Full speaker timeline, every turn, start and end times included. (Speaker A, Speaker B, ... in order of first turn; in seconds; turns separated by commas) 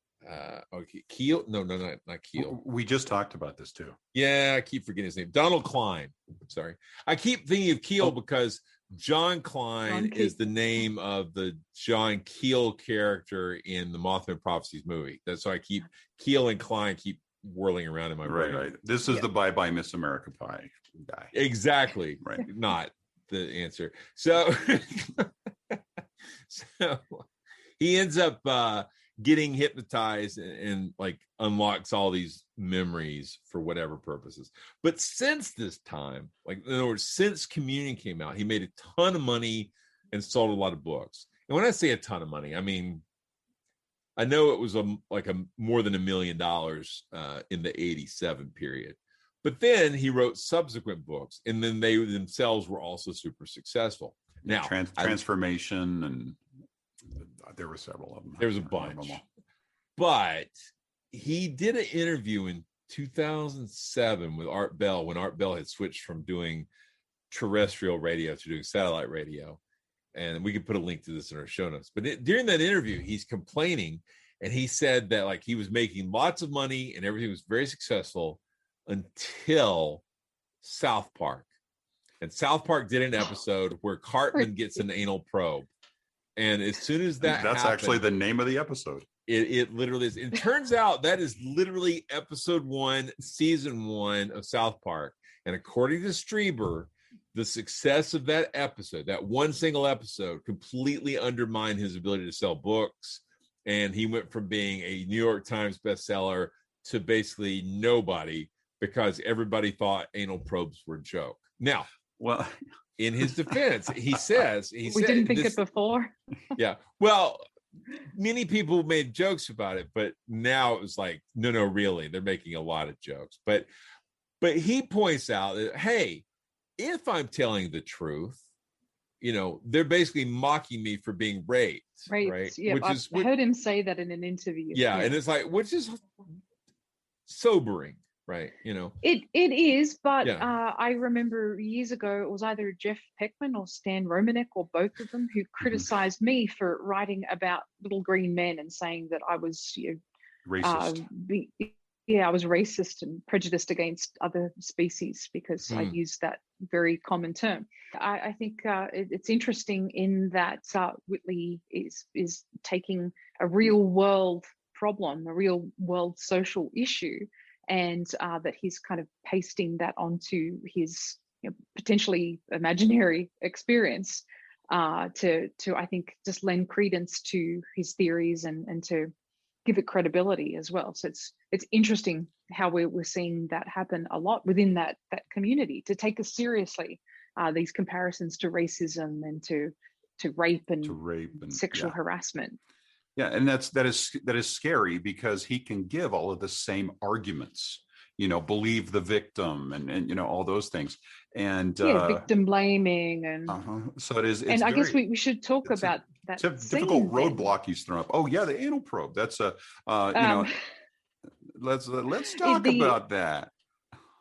Speaker A: 0.2-2.5, Speaker B: 2.4-4.0, Speaker A: 4.1-18.6, Speaker C: 9.9-10.4, Speaker B: 18.2-21.3, Speaker A: 21.3-25.8, Speaker A: 26.5-27.2, Speaker A: 27.8-43.0, Speaker A: 44.2-55.2, Speaker B: 54.4-56.4, Speaker B: 57.1-59.2, Speaker A: 58.4-59.2, Speaker A: 60.0-60.5, Speaker A: 61.1-66.7, Speaker A: 67.3-69.6, Speaker A: 70.1-80.0, Speaker A: 80.6-81.5, Speaker A: 82.2-85.7, Speaker C: 84.3-84.8, Speaker A: 86.4-88.0, Speaker B: 87.2-89.1, Speaker A: 89.3-111.9, Speaker B: 112.2-112.6, Speaker A: 113.0-115.6, Speaker C: 114.9-116.1, Speaker A: 116.6-117.4, Speaker A: 118.1-123.7, Speaker A: 124.4-126.2, Speaker A: 126.8-128.4, Speaker A: 129.2-133.3, Speaker C: 132.1-135.2, Speaker A: 134.7-136.1, Speaker A: 137.3-138.9, Speaker C: 139.0-150.0, Speaker B: 150.5-151.1, Speaker C: 150.6-179.1, Speaker A: 155.7-155.9, Speaker C: 179.7-192.6, Speaker B: 190.8-192.0, Speaker B: 193.2-202.3, Speaker C: 201.8-203.6, Speaker B: 203.5-205.0, Speaker C: 204.5-207.5, Speaker B: 205.7-210.5, Speaker C: 210.2-210.6, Speaker B: 211.5-213.5, Speaker C: 212.4-213.0